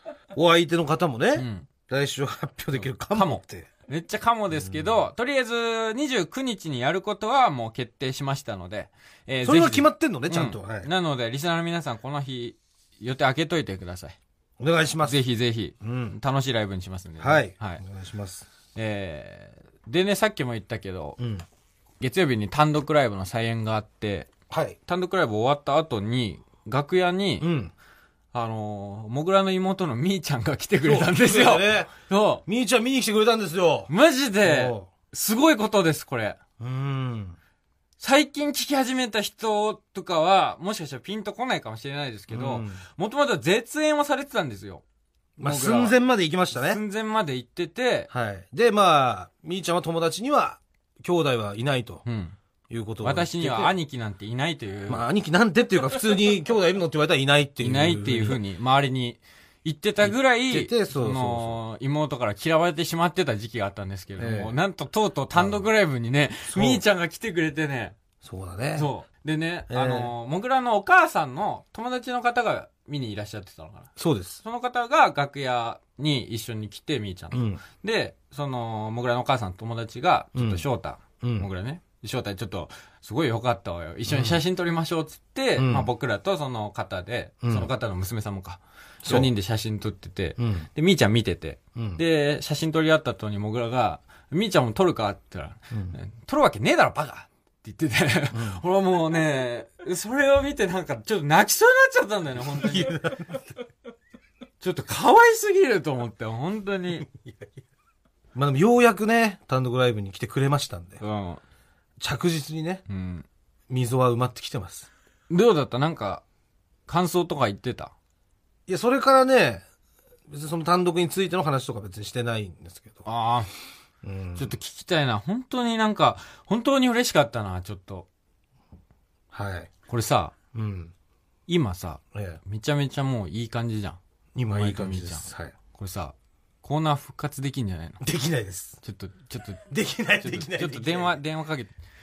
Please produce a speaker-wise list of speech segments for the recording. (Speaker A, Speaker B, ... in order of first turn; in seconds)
Speaker A: 0.3-3.7, 9.4-10.9, 14.6-15.2, 15.8-16.2, 17.2-18.4, 21.2-21.4, 24.5-24.8, 27.4-27.7, 30.8-31.9, 32.5-33.9, 34.4-34.9, 36.6-37.4, 42.3-42.8, 45.4-46.8, 48.1-52.0, 52.7-53.7, 54.9-58.4, 60.0-61.6, 64.2-64.5, 65.3-65.6, 66.5-66.8, 68.2-68.9, 69.7-70.1, 74.0-74.4, 77.3-77.6, 80.3-80.6, 81.2-81.5, 84.1-84.4, 85.6-85.9, 87.4-87.7, 89.0-89.3, 90.4-90.7, 91.8-92.0, 98.3-98.6, 102.5-103.4, 107.1-107.5, 108.3-111.0, 112.0-112.8, 113.7-114.9, 118.7-119.6, 120.3-123.0, 124.0-124.5, 129.3-129.7, 130.5-130.9, 132.1-132.4, 134.3-135.5, 138.0-138.8, 139.7-141.2
Speaker B: 1.4-1.7, 2.8-14.2, 15.0-17.8, 18.7-21.2, 22.0-24.3, 24.9-27.5, 28.3-32.4, 33.9-36.4, 38.0-44.8, 45.4-46.0, 46.5-48.1, 52.0-52.4, 53.0-55.0, 57.6-68.0, 68.8-73.9, 74.4-103.0, 104.6-107.1, 111.0-111.4, 112.9-113.2, 115.3-116.2, 116.9-117.9, 123.0-123.5, 124.3-128.1, 129.9-130.3, 131.5-134.0, 134.5-138.0, 138.8-139.7, 140.2-141.7